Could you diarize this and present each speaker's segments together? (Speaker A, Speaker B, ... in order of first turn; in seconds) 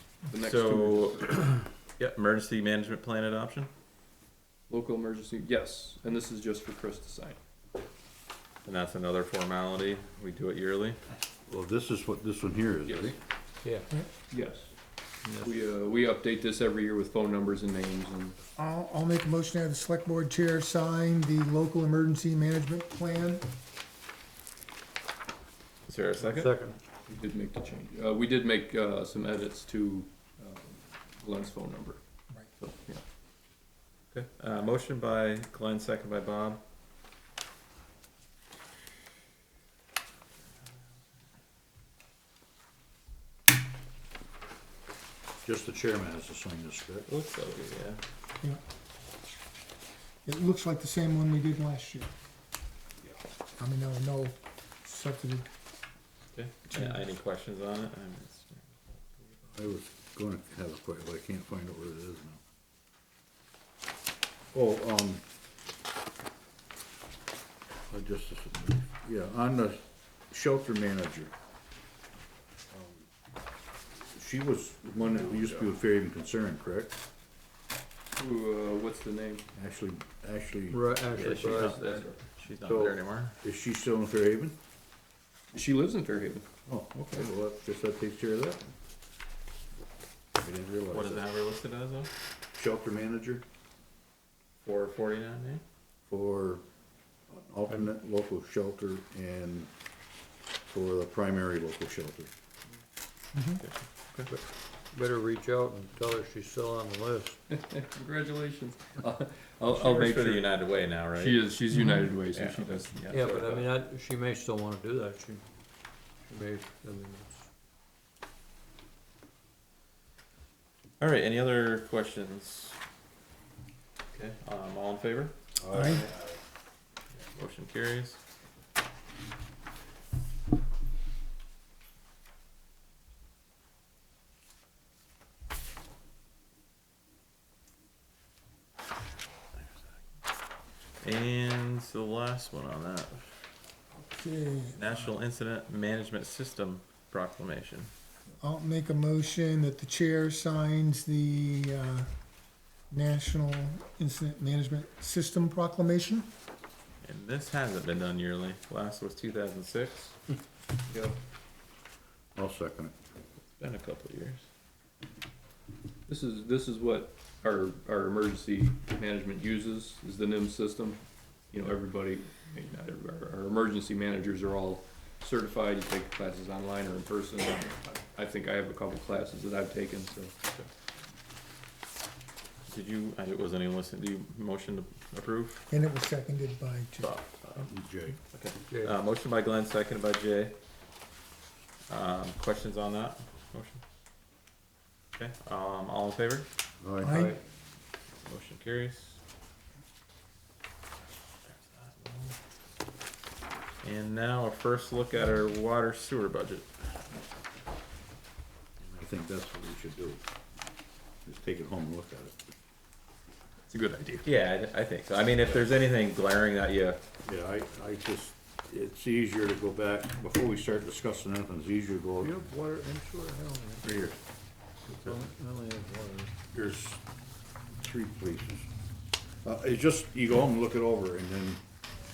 Speaker A: 0.3-1.4, 4.7-7.4, 12.8-13.1, 14.3-14.7, 15.4-18.4, 27.1-32.0, 32.6-33.0, 78.2-79.4, 81.2-82.2, 85.5-86.4, 107.5-110.5, 111.1-113.7, 160.9-161.2, 166.1-180.6, 213.7-214.2
Speaker B: 0.4-3.7, 8.6-11.0, 25.9-26.5, 34.1-36.6, 47.1-48.0, 56.3-58.7, 81.2-83.3, 90.9-92.1, 94.6-95.6, 103.6-104.3, 109.7-111.6, 112.2-113.2, 121.0-122.8, 124.1-125.3, 127.2-128.2, 141.0-143.3, 144.7-147.9, 157.0-160.2, 163.5-164.4, 182.7-185.6, 187.0-187.7, 188.3-190.6, 191.9-193.8, 195.2-196.5, 198.2-199.2, 201.4-202.3, 203.8-207.0, 214.2-217.0
Speaker C: 11.5-13.2, 45.4-47.1, 59.6-62.4, 64.5-65.2, 67.9-71.3, 72.7-73.0, 74.0-77.0, 79.5-80.8, 82.6-84.5, 86.7-88.7, 90.4-91.2, 92.5-93.4, 96.1-96.6, 97.3-99.7, 100.7-102.3, 125.6-126.4, 162.3-162.9, 187.6-188.2, 196.8-197.1, 208.8-210.2, 211.2-212.5, 217.2-222.4, 223.8-224.2, 224.9-225.2, 226.5-227.0, 227.8-228.7, 229.4-231.6
Speaker D: 13.6-13.9, 15.2-15.5, 26.2-26.8, 80.7-82.0, 104.3-107.4, 113.1-115.4, 116.3-117.5, 188.7-189.0, 197.1-197.4, 222.2-224.1, 224.9-226.3
Speaker E: 18.6-23.5, 50.2-52.1, 53.6-55.5, 56.7-57.0, 103.3-103.6, 125.7-126.0, 144.0-144.9, 148.4-152.1, 152.9-156.3, 185.7-187.2, 197.0-197.4